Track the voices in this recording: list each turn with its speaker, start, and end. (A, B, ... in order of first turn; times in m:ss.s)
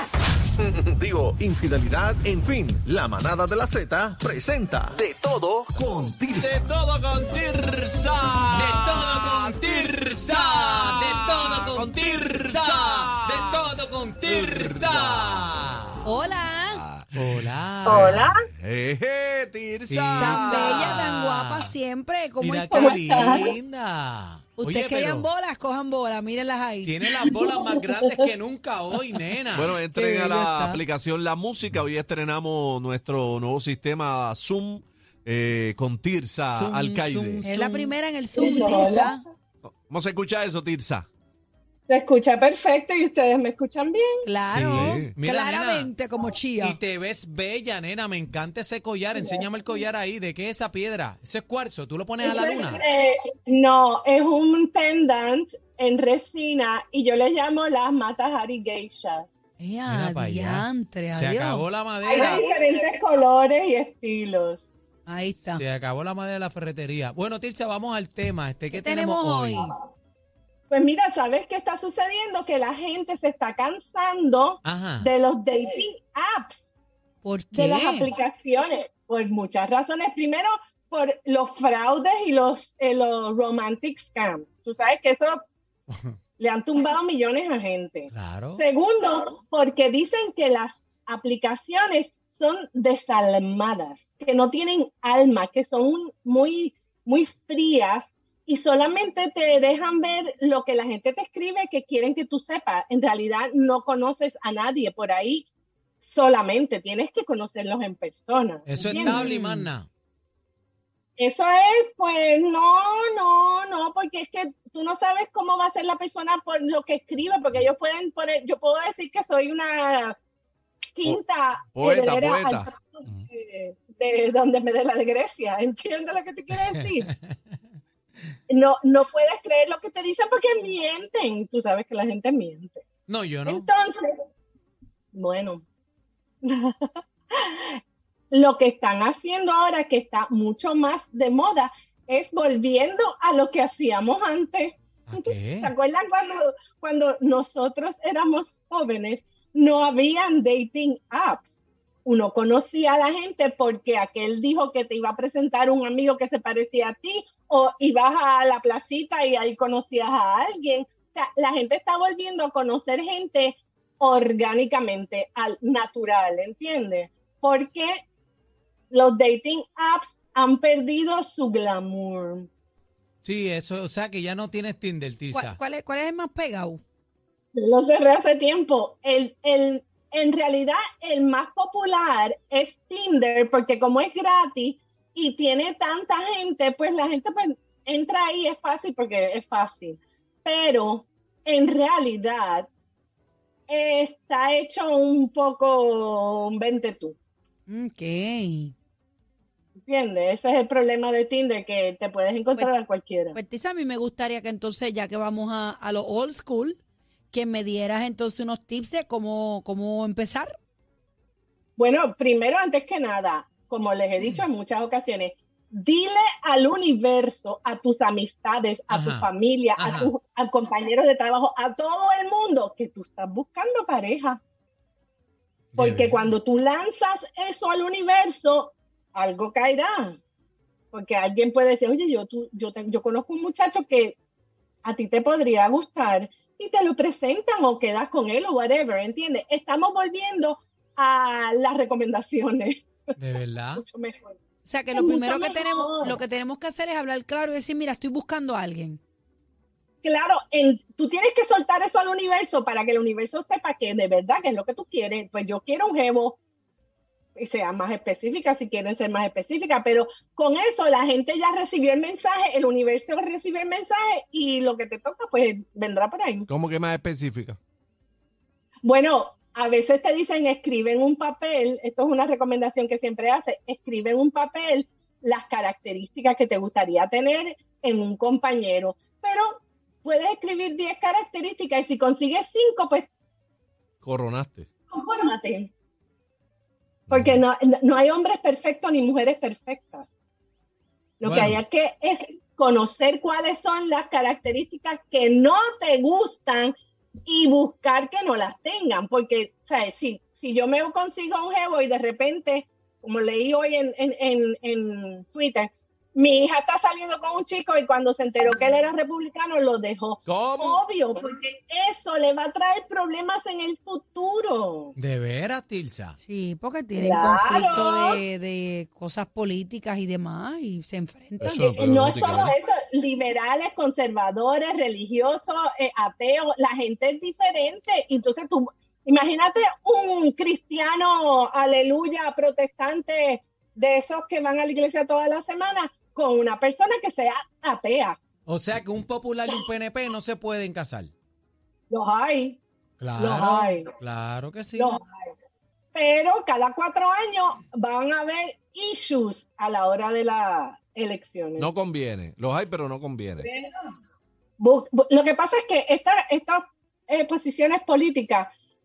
0:00.6-0:06.6 A
0:05.8-0:13.7 B
0:08.5-0:16.0 C
0:14.2-0:15.5 B
0:16.0-0:16.8 D
0:16.7-0:17.1 B
0:17.1-0:18.3 C
0:17.8-0:18.4 E
0:17.9-0:21.0 B
0:19.9-0:21.7 C
0:20.2-0:23.5 D
0:22.4-0:25.3 C
0:22.7-0:23.6 E
0:24.6-0:27.0 D
0:26.8-0:29.8 C
0:27.2-0:28.2 E
0:29.5-0:37.5 B
0:30.0-0:30.8 D
0:36.5-0:38.0 C
0:37.4-0:39.2 D
0:38.3-0:39.2 E
0:39.6-0:41.1 B
0:41.9-0:44.3 E
0:44.2-0:46.8 D
0:44.5-0:45.1 B
0:44.5-0:45.9 C
0:46.6-0:52.8 C
0:49.2-0:49.8 E
0:52.2-0:59.3 E
0:59.6-1:01.7 D
0:59.9-1:02.4 C
1:02.1-1:04.6 E
1:05.1-1:05.6 D
1:05.4-1:09.6 C
1:08.7-1:09.8 D
1:10.7-1:16.6 E
1:14.6-1:15.1 C
1:17.2-1:18.1 D
1:17.5-1:25.4 E
1:25.9-1:26.2 C
1:26.4-1:45.4 E
1:28.1-1:28.6 C
1:46.1-1:49.3 E
1:48.7-1:49.9 C
1:48.9-1:49.7 D
1:51.2-2:00.2 E
2:01.0-2:07.1 E
2:01.7-2:03.2 B
2:06.5-2:07.3 C
2:08.5-2:12.8 E
2:13.1-2:13.7 C
2:13.4-2:14.2 E
2:15.1-2:15.6 E
2:16.4-2:17.8 E
2:18.3-2:31.4 E
2:25.1-2:25.7 C
2:32.0-2:48.0 E
2:48.9-2:52.5 E
2:53.2-2:55.6 C
2:55.3-2:56.8 D
2:57.5-3:12.7 E
3:13.7-3:17.2 E
3:17.7-3:18.7 D
3:19.8-3:23.4 E
3:23.3-3:26.8 D
3:27.3-3:30.5 D
3:31.8-3:44.4 E
3:38.9-3:40.1 C
3:45.7-3:46.3 C
3:45.8-3:50.2 E
3:50.9-3:54.2 E
3:54.8-4:03.0 E
4:03.2-4:03.8 C
4:03.7-4:04.4 E
4:04.6-4:09.0 D
4:04.9-4:06.2 E
4:10.0-4:16.4 E
4:17.4-4:26.5 E
4:26.5-4:27.6 B
4:28.8-4:43.1 E
4:44.0-4:44.7 B
4:44.9-4:45.7 E
4:47.1-4:50.1 E
4:51.2-5:14.9 E
4:51.2-4:51.6 C
5:10.3-5:10.8 B
5:15.0-5:16.2 C
5:16.2-5:21.6 D
5:17.0-5:18.2 E
5:21.4-5:22.5 B
5:21.6-5:38.2 E
5:38.5-5:41.1 C
5:41.9-5:42.6 E
5:43.0-5:45.0 C
5:43.2-5:43.9 E
5:44.8-5:45.3 E
5:45.9-5:51.7 E
5:51.6-5:53.5 B
5:53.4-5:53.9 E
5:54.6-5:58.5 E